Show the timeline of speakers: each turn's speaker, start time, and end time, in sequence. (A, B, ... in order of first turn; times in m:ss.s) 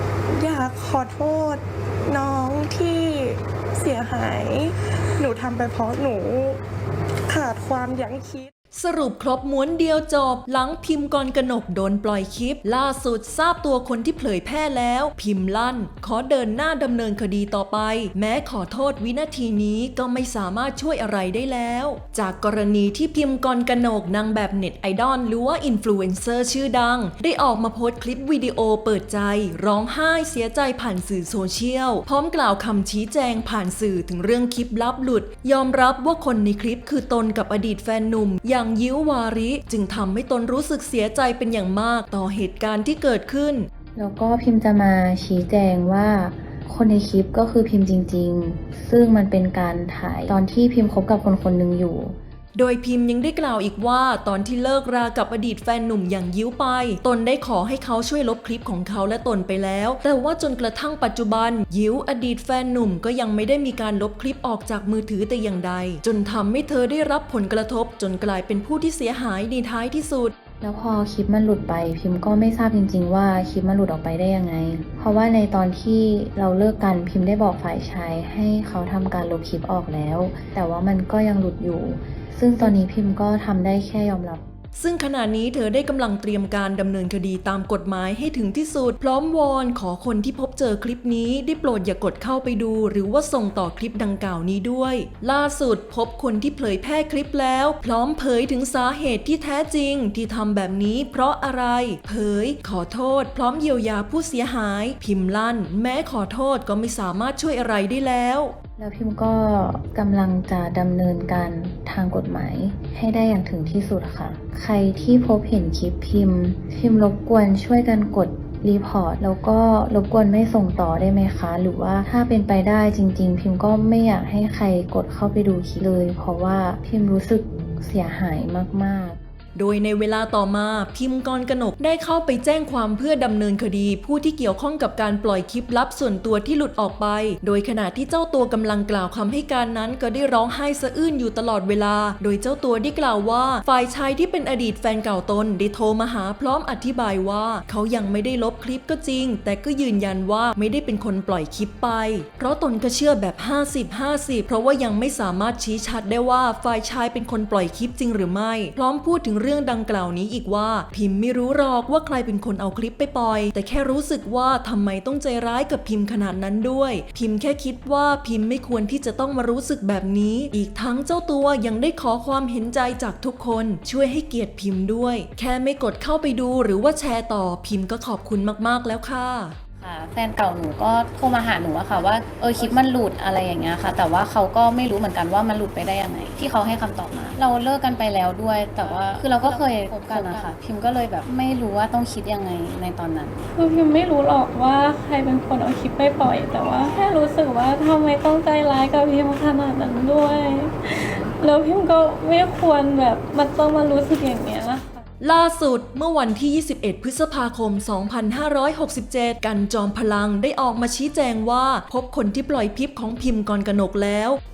0:00.3-0:06.6 A
0:07.3-0:08.5 A
0:08.7-0:43.7 B
0:44.0-0:52.2 C
0:52.6-1:10.3 B
1:10.6-1:24.5 C
1:24.8-1:48.5 B
1:48.8-2:09.2 C
2:09.6-2:59.6 B
2:59.8-3:13.4 D
3:08.8-3:10.5 E
3:13.5-3:25.0 E
3:25.2-3:34.4 B